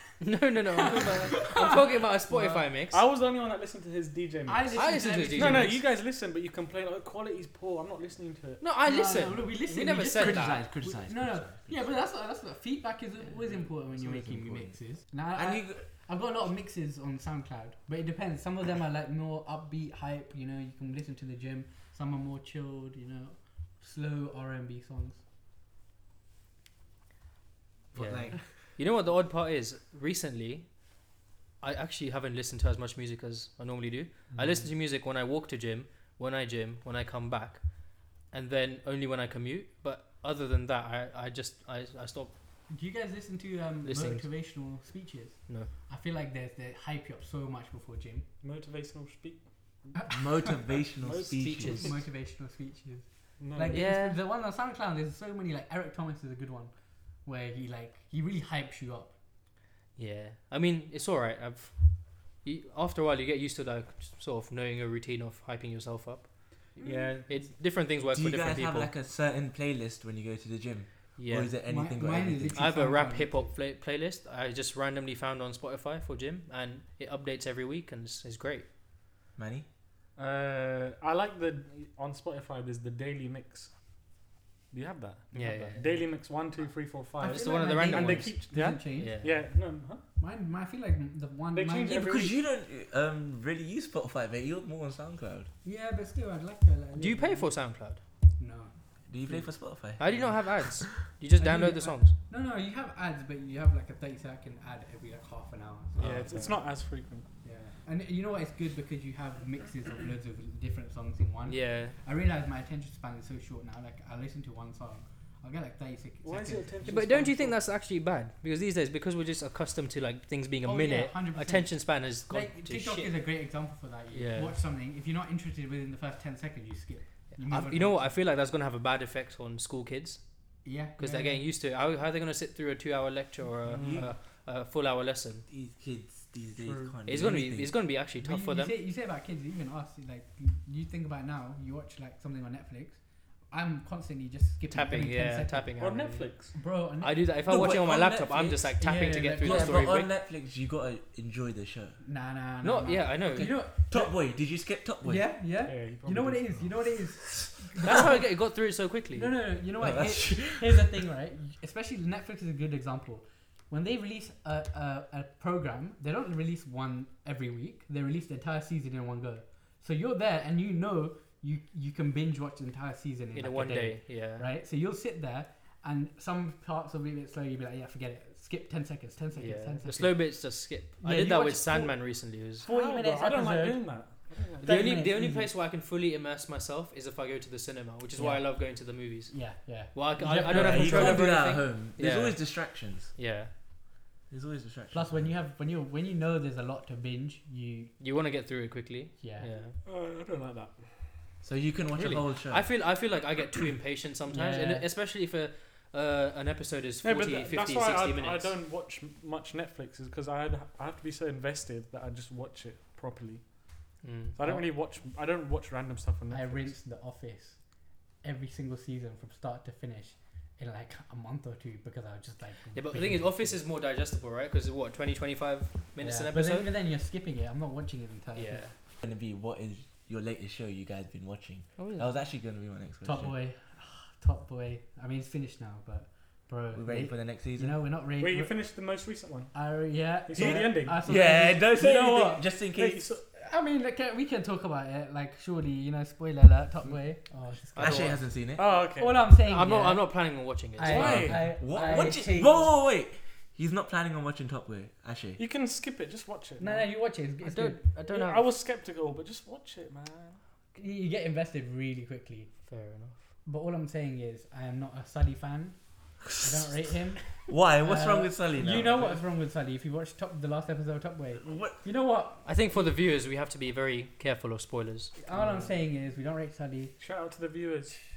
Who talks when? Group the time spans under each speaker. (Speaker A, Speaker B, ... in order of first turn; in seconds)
Speaker A: 0.2-3.0, 4.7-5.7, 8.6-10.6, 27.9-30.7, 31.6-42.3, 43.8-44.3, 51.3-51.9, 53.7-54.2, 60.0-61.8, 62.4-68.9, 71.2-71.5, 72.5-78.7, 85.3-86.0, 87.2-88.3, 89.0-89.4, 97.0-98.0, 100.0-102.2, 106.0-106.3, 111.5-111.9, 116.8-123.2, 124.1-124.6, 127.4-130.2, 131.0-135.4, 137.1-138.7, 144.7-146.3, 147.0-150.1, 152.6-153.5, 157.8-159.3, 173.3-174.5, 179.3-182.7, 184.6-189.3, 189.9-192.5, 193.2-193.5, 198.0-199.8, 201.9-208.5, 214.0-214.4, 222.7-226.7, 228.3-228.7, 231.8-232.1, 247.8-248.2, 249.4-251.3, 257.4-258.5, 262.6-263.2, 272.4-275.2
Speaker B: 0.8-2.6, 4.5-5.8, 8.8-25.2, 42.7-48.2, 49.9-50.5, 51.8-56.7, 57.2-59.1, 66.8-67.5, 71.7-73.5, 85.4-85.7, 87.2-89.2, 90.2-92.2, 95.6-97.5, 98.4-98.7, 101.4-106.7, 107.4-117.1, 120.6-128.1, 130.6-131.4, 138.2-143.0, 143.5-145.7, 146.5-147.3, 148.8-150.0, 152.0-154.1, 155.0-158.2, 159.1-180.3, 181.0-182.0, 182.6-184.0, 184.6-185.5, 188.2-191.2, 194.9-197.9, 199.2-199.5, 204.3-204.8, 216.3-217.6, 218.2-223.6, 226.0-228.7, 233.0-238.5, 239.5-241.9, 243.3-248.2, 248.9-252.7, 256.6-257.8, 260.7-262.5, 263.4-265.8, 266.3-272.5, 275.2-276.9
Speaker C: 1.4-1.8, 2.7-8.6, 34.3-34.7, 48.4-49.9, 51.0-51.9, 53.4-53.8, 66.8-67.2, 80.2-83.7, 84.7-90.0, 91.5-92.3, 106.0-107.3, 116.2-117.5, 133.7-134.0, 136.6-136.9, 145.8-146.5, 155.7-156.7, 182.6-184.9, 190.2-191.2, 199.8-200.9, 207.0-213.5, 214.3-216.7, 238.2-239.5, 240.3-241.1, 241.8-243.2, 248.6-249.3, 250.8-251.5, 255.4-256.9, 258.1-260.4, 277.0-278.0
Speaker D: 10.1-12.0, 13.3-14.8, 15.3-15.8, 27.9-28.4, 50.1-51.9, 68.1-72.7, 79.3-79.7, 92.0-95.5, 99.1-100.7, 133.7-134.1, 135.5-137.7, 147.4-148.7, 149.4-152.0, 153.3-155.2, 159.8-160.8, 181.0-181.4, 190.4-193.1, 194.3-195.3, 201.4-202.7, 229.0-233.3, 236.7-237.7, 240.3-243.0, 247.8-248.6, 251.0-255.4, 267.5-269.2, 271.4-271.8